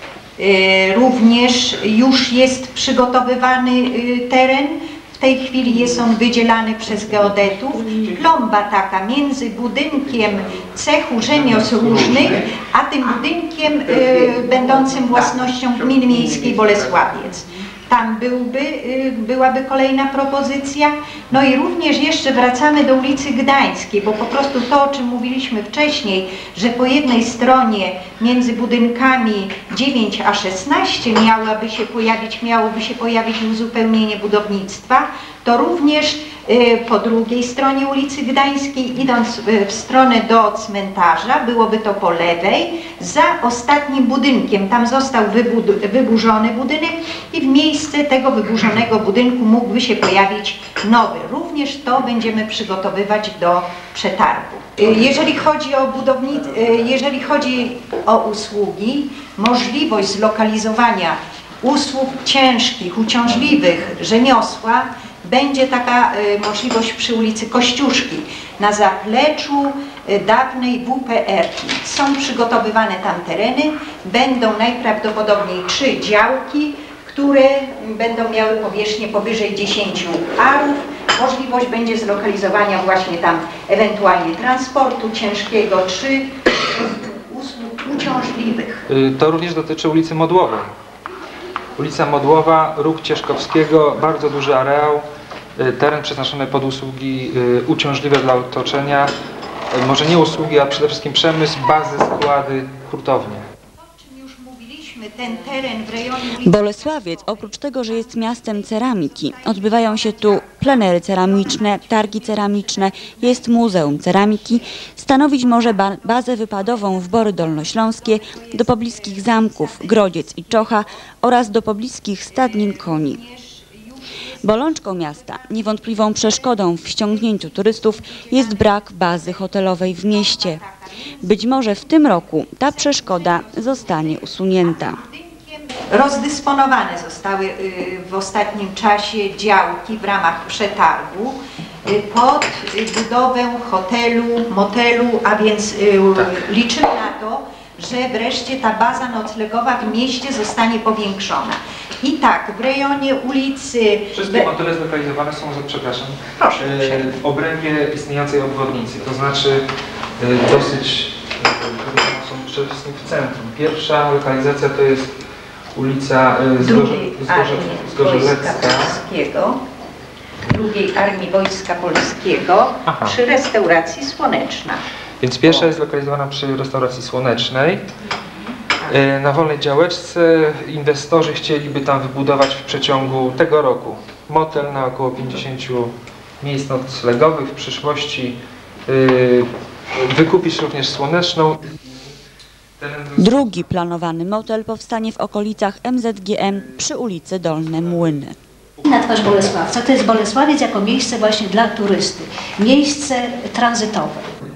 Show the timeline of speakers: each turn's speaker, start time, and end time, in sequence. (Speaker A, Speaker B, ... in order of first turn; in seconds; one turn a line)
Speaker A: 0.4-88.8
Speaker B: 7.4-8.1
Speaker B: 11.2-12.5
Speaker B: 88.9-90.7
Speaker B: 91.8-95.1
Speaker B: 95.6-99.1
Speaker B: 99.7-103.5
Speaker A: 103.8-107.4
Speaker C: 106.4-123.2
Speaker A: 108.2-113.4
Speaker A: 118.3-119.4
Speaker A: 122.5-124.0
Speaker C: 124.4-130.6
Speaker A: 127.5-129.0
Speaker A: 130.1-131.7
Speaker C: 131.2-135.0
Speaker A: 132.7-154.5
Speaker B: 154.1-159.6
Speaker A: 156.6-157.0
Speaker B: 160.2-165.2
Speaker B: 165.8-169.0
Speaker A: 166.6-169.6
Speaker A: 170.5-174.8
Speaker B: 172.9-173.2
Speaker B: 175.2-177.8
Speaker B: 178.9-191.7
Speaker B: 192.8-193.6
Speaker C: 193.2-198.3
Speaker D: 198.8-204.3